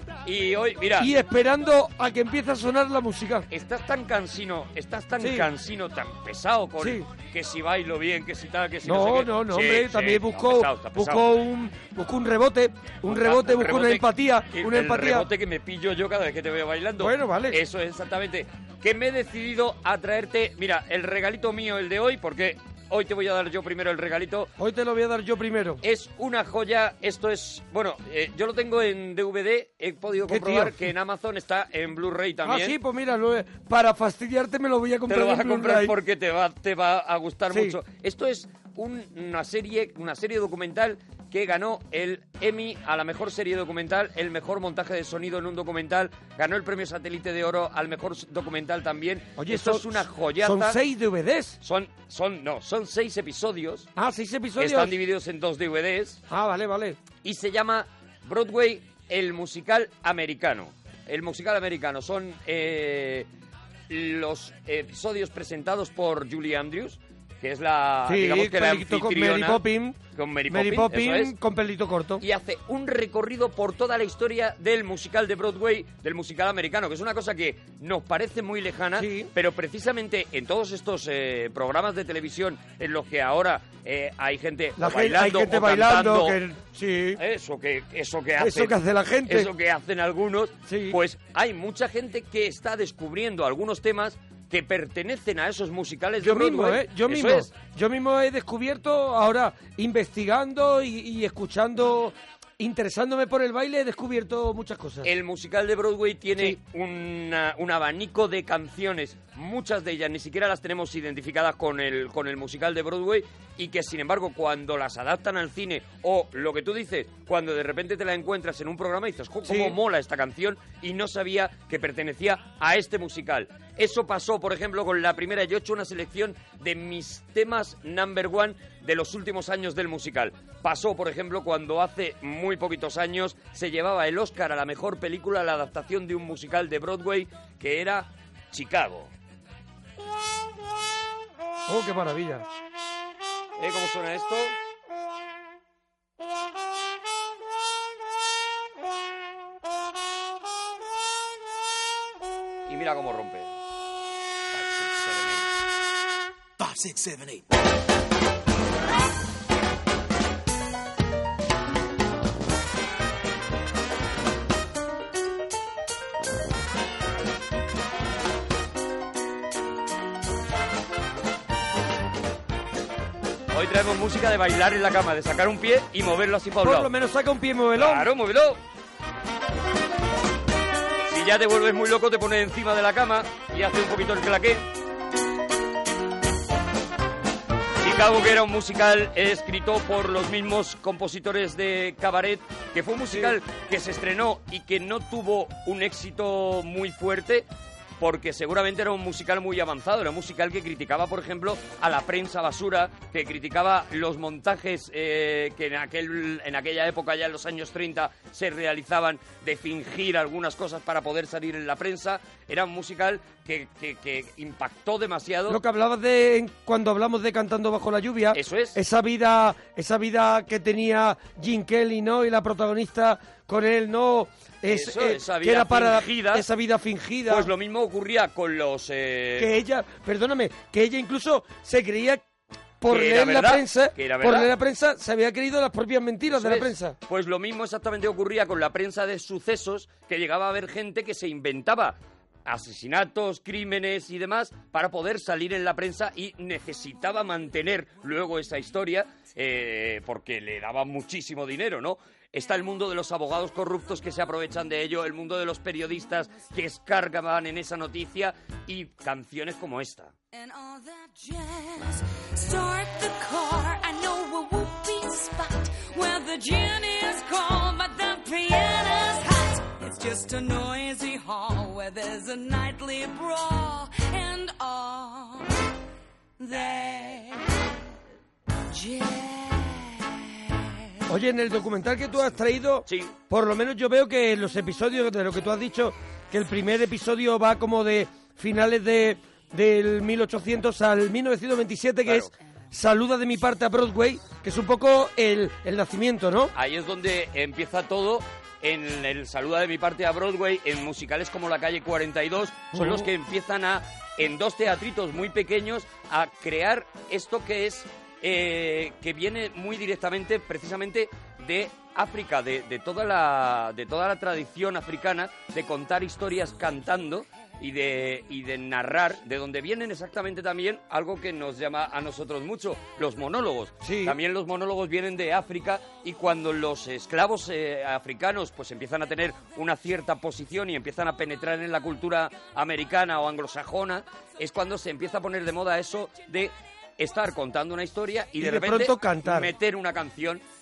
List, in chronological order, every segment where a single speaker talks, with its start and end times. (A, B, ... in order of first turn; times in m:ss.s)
0:00.2-0:01.1 A
0:01.0-0:03.5 B
0:03.5-0:11.3 A
0:05.2-0:05.5 B
0:06.8-0:07.1 B
0:08.8-0:15.3 B
0:13.1-0:24.5 A
0:17.0-0:17.6 B
0:24.6-0:25.8 B
0:25.8-0:32.8 A
0:30.3-0:30.9 B
0:32.4-0:35.9 B
0:35.1-0:50.8 A
0:37.5-0:37.8 B
0:49.4-0:51.6 B
0:51.6-0:53.9 A
0:54.0-0:54.9 B
0:54.6-0:56.2 A
0:56.3-0:57.0 B
0:57.2-1:03.3 A
1:03.9-1:11.3 A
1:08.0-1:12.2 B
1:12.2-1:26.4 A
1:19.0-1:19.3 B
1:24.8-1:27.2 B
1:27.2-1:37.5 A
1:28.4-1:29.5 B
1:30.7-1:31.0 B
1:36.2-1:45.1 B
1:45.0-2:19.1 A
1:59.4-1:59.8 B
2:21.7-2:22.4 B
2:23.6-2:24.6 A
2:32.7-2:33.5 A
2:34.5-2:35.5 A
2:53.5-2:56.9 A
2:56.6-2:58.1 B
2:57.8-2:58.6 A
3:01.1-3:04.6 A
3:07.8-3:17.4 A
3:13.1-3:13.4 B
3:18.0-3:35.6 A
3:35.5-3:47.5 B
3:38.3-3:38.8 A
3:44.7-3:46.4 A
3:47.3-3:49.5 A
3:49.4-3:52.2 B
3:52.8-3:57.0 B
3:52.9-3:54.5 A
3:56.3-4:20.1 A
4:20.3-4:35.5 C
4:36.4-4:37.5 C
4:38.7-4:40.2 C
4:41.1-4:56.5 B
4:42.8-4:43.1 A
4:52.0-4:52.3 A
4:56.5-5:40.4 A
5:02.7-5:03.1 B
5:23.8-5:24.2 B
5:38.4-5:39.5 B